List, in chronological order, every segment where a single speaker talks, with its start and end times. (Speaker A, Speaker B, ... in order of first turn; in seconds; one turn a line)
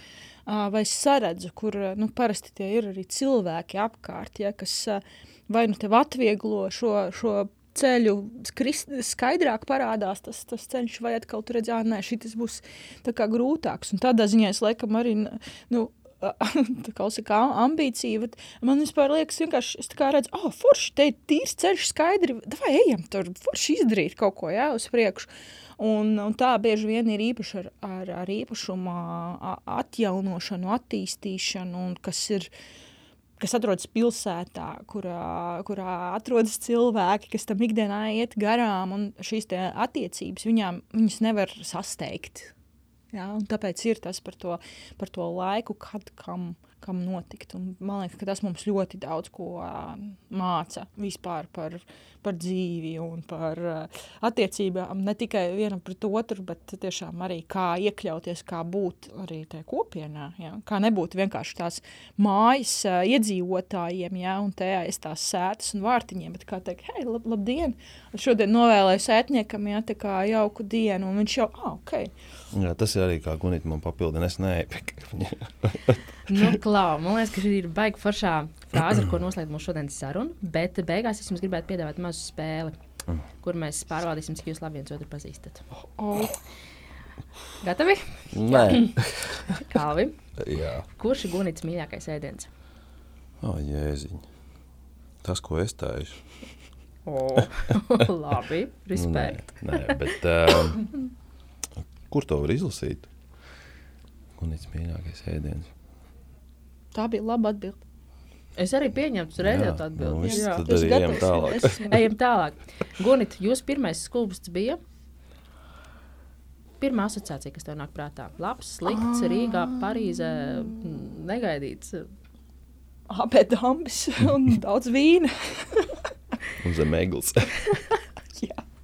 Speaker A: 0.5-32.5
Speaker A: 33.4-42.5
Speaker A: 43.1-72.1
Speaker B: 72.5-76.6
Speaker C: 76.3-82.8
Speaker C: 83.4-85.6
Speaker A: 86.0-86.4
Speaker C: 87.6-89.0
Speaker B: 88.3-89.6
Speaker C: 89.6-90.2
Speaker B: 90.4-90.9
Speaker C: 91.0-92.5
Speaker B: 93.4-94.3
Speaker B: 95.2-96.2
Speaker C: 97.1-100.0
Speaker B: 99.0-100.8
Speaker B: 101.8-103.1
Speaker B: 104.4-105.7
Speaker A: 106.9-107.8
Speaker C: 108.6-110.7
Speaker B: 109.4-111.9
Speaker A: 110.2-112.0
Speaker C: 111.9-114.8
Speaker C: 116.8-122.1
Speaker A: 118.8-121.0
Speaker A: 123.1-126.0
Speaker B: 126.6-127.8
Speaker A: 128.3-128.7